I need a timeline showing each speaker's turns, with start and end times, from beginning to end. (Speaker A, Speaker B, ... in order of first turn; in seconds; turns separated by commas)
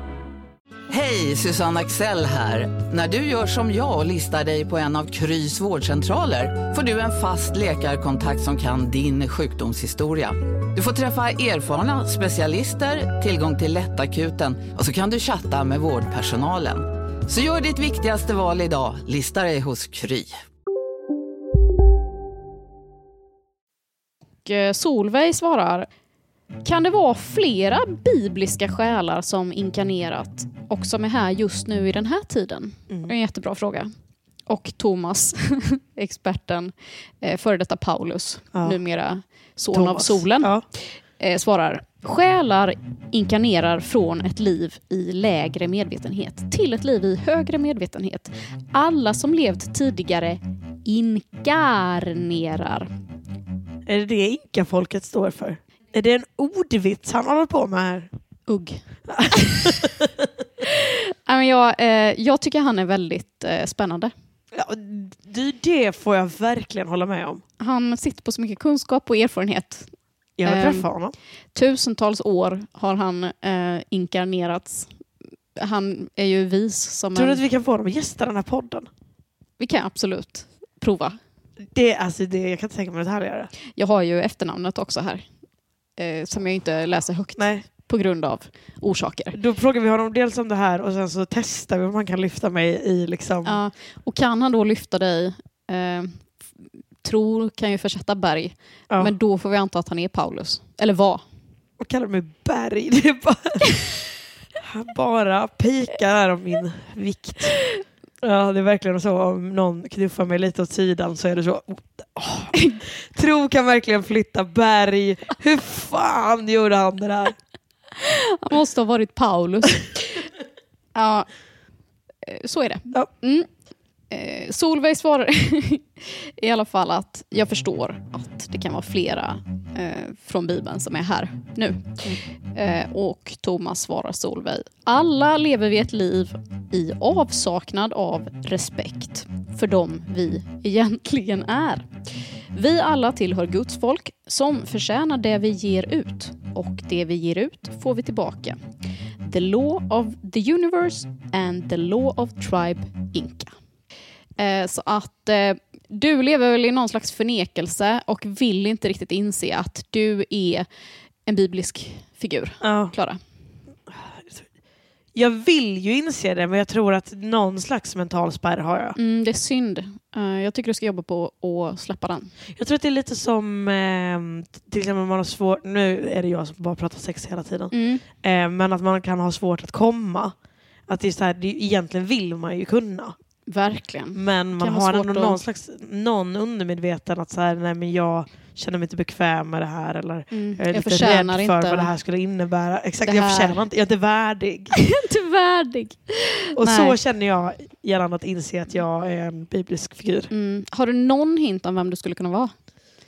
Speaker A: 0.9-20.3, Speaker B: 24.4-25.9, Speaker B: 26.6-33.9, Speaker B: 34.5-40.5, Speaker C: 39.7-40.6, Speaker B: 41.2-52.9, Speaker C: 53.9-58.1, Speaker B: 58.5-59.8, Speaker C: 59.1-60.1, Speaker B: 60.6-64.1, Speaker C: 64.5-67.4, Speaker B: 67.6-69.9, Speaker C: 70.4-71.1, Speaker B: 70.4-70.9, Speaker B: 71.5-74.9, Speaker B: 75.5-77.4, Speaker C: 77.1-78.9, Speaker B: 79.6-81.2, Speaker C: 81.7-83.5, Speaker B: 83.8-85.2, Speaker B: 86.0-89.4, Speaker C: 87.4-87.6, Speaker C: 89.3-93.6, Speaker B: 93.4-96.2, Speaker B: 97.0-101.2, Speaker C: 101.8-103.7, Speaker C: 104.6-107.6, Speaker C: 108.2-117.3, Speaker B: 118.0-120.2, Speaker B: 120.9-121.3, Speaker B: 122.2-123.5, Speaker B: 124.1-141.9, Speaker B: 142.5-148.6, Speaker B: 149.2-153.5, Speaker B: 154.4-160.7, Speaker B: 161.3-163.2, Speaker C: 162.6-162.9, Speaker C: 163.9-164.4, Speaker C: 165.1-169.0, Speaker B: 169.0-172.3, Speaker C: 172.6-180.3, Speaker B: 177.7-178.0, Speaker C: 180.9-183.2, Speaker B: 183.5-185.4, Speaker C: 184.1-194.8, Speaker B: 190.3-191.9, Speaker B: 193.0-193.6, Speaker B: 194.7-196.9, Speaker C: 196.6-200.3, Speaker B: 200.3-202.5